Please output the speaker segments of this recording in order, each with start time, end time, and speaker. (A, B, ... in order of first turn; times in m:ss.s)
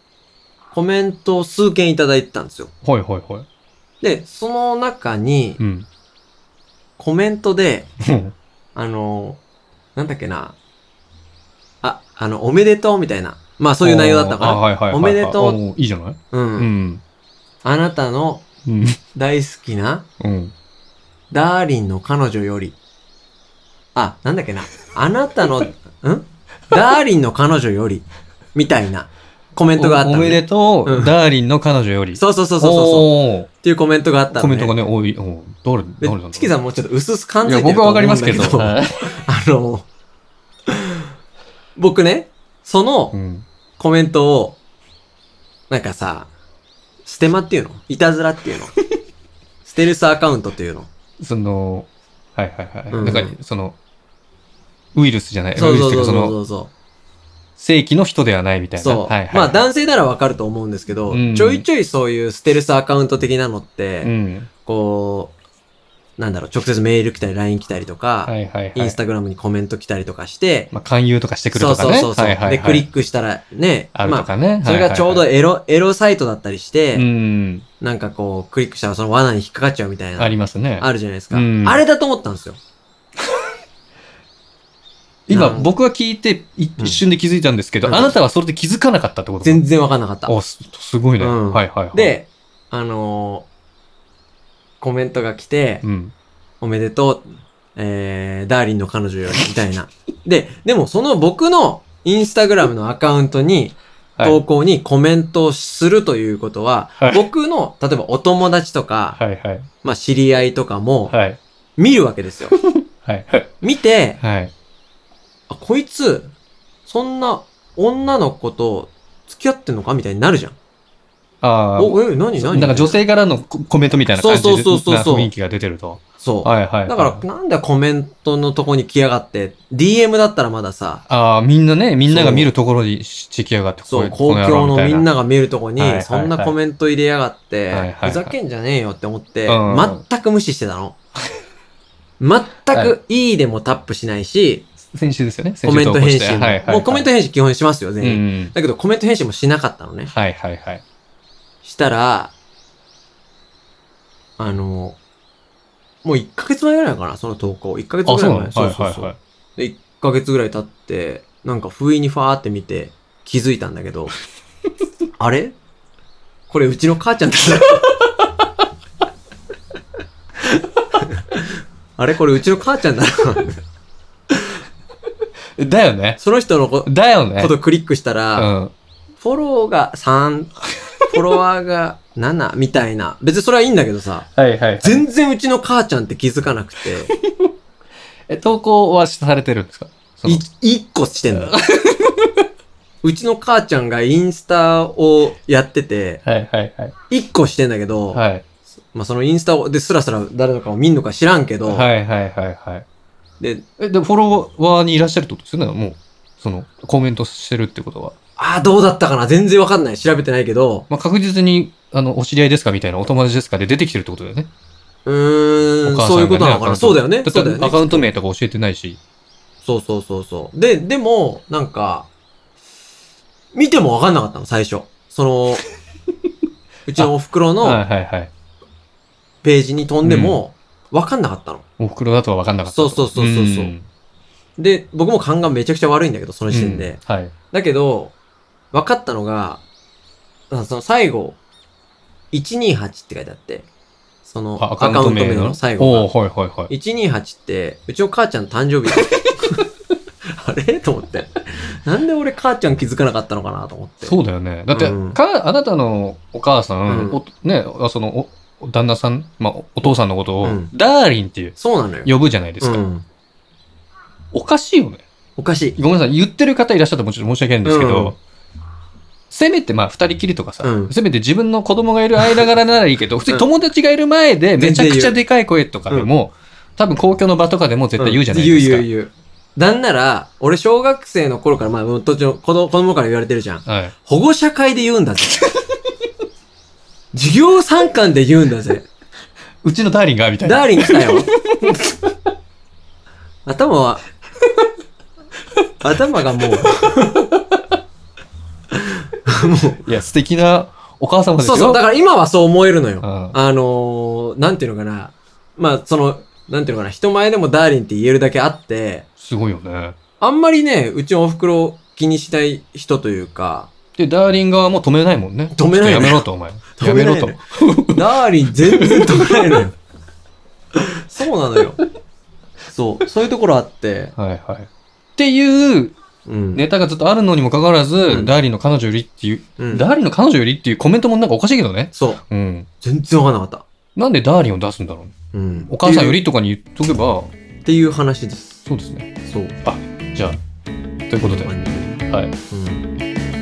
0:00.7-0:02.7 A
0:02.8-0:03.5 B
0:04.0-0:05.6 A
0:05.6-0:05.9 B
0:07.0-0:07.9 A
0:08.0-0:08.3 B
0:08.8-0:09.4 A
0:10.0-0:10.6 A
0:11.8-0:15.6 A
0:13.8-0:17.0 B
0:16.3-0:16.7 A
0:17.6-0:18.4 A
0:18.7-0:19.0 B
0:19.2-0:20.1 A
0:20.2-0:20.5 B
0:21.3-0:22.8 A
0:24.0-0:31.2 A
0:29.8-0:33.5 B
0:32.2-0:33.1 A
0:33.6-0:34.8 A
0:34.3-0:36.5 B
0:36.0-0:39.9 A
0:37.4-0:39.1 B
0:41.8-0:43.1 A
0:43.1-0:43.4 B
0:43.8-0:44.6 A
0:45.7-0:46.3 A
0:47.0-0:48.7 A
0:49.6-0:50.9 A
0:51.2-0:53.8 B
0:52.9-0:53.3 A
0:55.0-0:56.4 B
0:55.6-0:56.7 A
0:57.6-0:59.6 B
0:58.8-1:04.1 A
1:01.1-1:01.6 B
1:04.0-1:04.5 B
1:04.7-1:05.4 A
1:06.2-1:10.7 A
1:08.3-1:09.0 B
1:10.7-1:12.9 B
1:11.5-1:17.1 A
1:13.9-1:15.2 B
1:16.9-1:17.6 B
1:17.8-1:22.6 A
1:20.2-1:21.8 B
1:25.3-1:29.6 B
1:25.3-1:25.7 A
1:27.8-1:28.2 A
1:29.4-1:30.3 A
1:30.3-1:32.2 B
1:31.2-1:33.5 A
1:34.8-1:35.8 A
1:35.8-1:36.1 B
1:36.6-1:49.2 A
1:47.0-1:47.2 B
1:49.2-1:49.7 B
1:49.8-1:51.2 A
1:51.1-1:51.4 B
1:51.8-1:52.6 A
1:52.6-1:53.5 B
1:53.6-1:54.2 A
1:54.2-1:54.5 B
1:55.5-1:56.3 A
1:56.9-2:00.6 A
2:01.4-2:07.2 B
2:01.8-2:03.0 A
2:04.1-2:05.3 A
2:06.2-2:11.0 A
2:11.1-2:15.1 B
2:12.1-2:12.5 A
2:13.9-2:21.0 A
2:15.8-2:16.6 B
2:17.7-2:18.4 B
2:19.5-2:20.0 B
2:22.2-2:24.7 A
2:24.9-2:27.1 B
2:25.6-2:30.1 A
2:28.0-2:28.5 B
2:30.1-2:30.8 B
2:31.6-2:32.3 A
2:34.4-2:35.0 A
2:36.0-2:44.1 A
2:38.0-2:39.2 B
2:45.2-2:45.6 A
2:46.5-2:48.0 A
2:51.0-2:51.4 A
2:52.0-2:53.6 A
2:55.6-2:56.2 B
2:56.2-2:58.5 A
2:56.8-2:57.5 B
2:58.4-2:58.7 B
2:59.2-3:00.6 A
3:01.1-3:04.3 A
3:04.4-3:05.0 B
3:04.8-3:07.1 A
3:08.3-3:10.4 B
3:10.3-3:11.5 A
3:11.4-3:12.3 B
3:13.0-3:16.2 A
3:16.2-3:16.9 B
3:17.1-3:18.2 A
3:18.1-3:18.4 B
3:18.9-3:21.9 A
3:21.7-3:22.8 B
3:23.8-3:28.2 B
3:28.4-3:30.9 A
3:30.9-3:34.5 B
3:35.1-3:38.0 A
3:35.8-3:39.0 B
3:39.6-3:42.1 A
3:43.5-3:45.6 A
3:46.9-3:47.8 A
3:47.6-3:48.3 B
3:49.4-3:51.6 A
3:50.0-3:50.4 B
3:51.8-3:53.9 B
3:52.7-3:53.7 A
3:54.6-3:57.0 A
3:56.5-3:57.3 B
3:57.5-3:58.2 A
3:58.7-3:59.6 A
4:00.5-4:01.4 A
4:02.3-4:03.7 A
4:04.2-4:06.1 A
4:04.6-4:06.7 B
4:06.7-4:09.5 A
4:10.3-4:14.2 A
4:14.0-4:22.8 B
4:14.7-4:15.2 A
4:16.9-4:17.2 A
4:20.4-4:20.7 A
4:21.6-4:23.0 A
4:24.3-4:25.0 B
4:25.4-4:25.8 A
4:25.8-4:28.2 B
4:27.6-4:28.2 A
4:29.3-4:38.9 B
4:30.6-4:30.9 A
4:34.6-4:35.2 A
4:38.0-4:45.3 A
4:43.7-4:43.9 B
4:47.1-4:48.9 A
4:49.6-4:51.7 B
4:50.4-4:51.3 A
4:53.5-4:54.0 A
4:55.8-4:57.2 A
4:59.3-4:59.8 A
4:59.8-5:01.8 B
5:01.4-5:09.1 A
5:03.0-5:03.4 B
5:09.2-5:10.0 B
5:10.2-5:13.7 A
5:14.0-5:18.0 B
5:15.6-5:16.3 A
5:16.8-5:19.8 A
5:18.7-5:19.2 B
5:21.1-5:21.8 A
5:22.7-5:24.1 A
5:24.2-5:26.0 B
5:26.3-5:26.6 A
5:26.6-5:32.7 B
5:28.1-5:28.4 A
5:29.6-5:29.9 A
5:31.9-5:32.2 A
5:32.8-5:33.6 A
5:34.0-5:35.1 B
5:35.3-5:36.2 A
5:35.7-5:37.3 B
5:37.6-5:38.6 A
5:38.6-5:39.1 B
5:39.3-5:39.6 A
5:39.6-5:40.4 B
5:41.1-5:42.3 B
5:41.2-5:42.9 A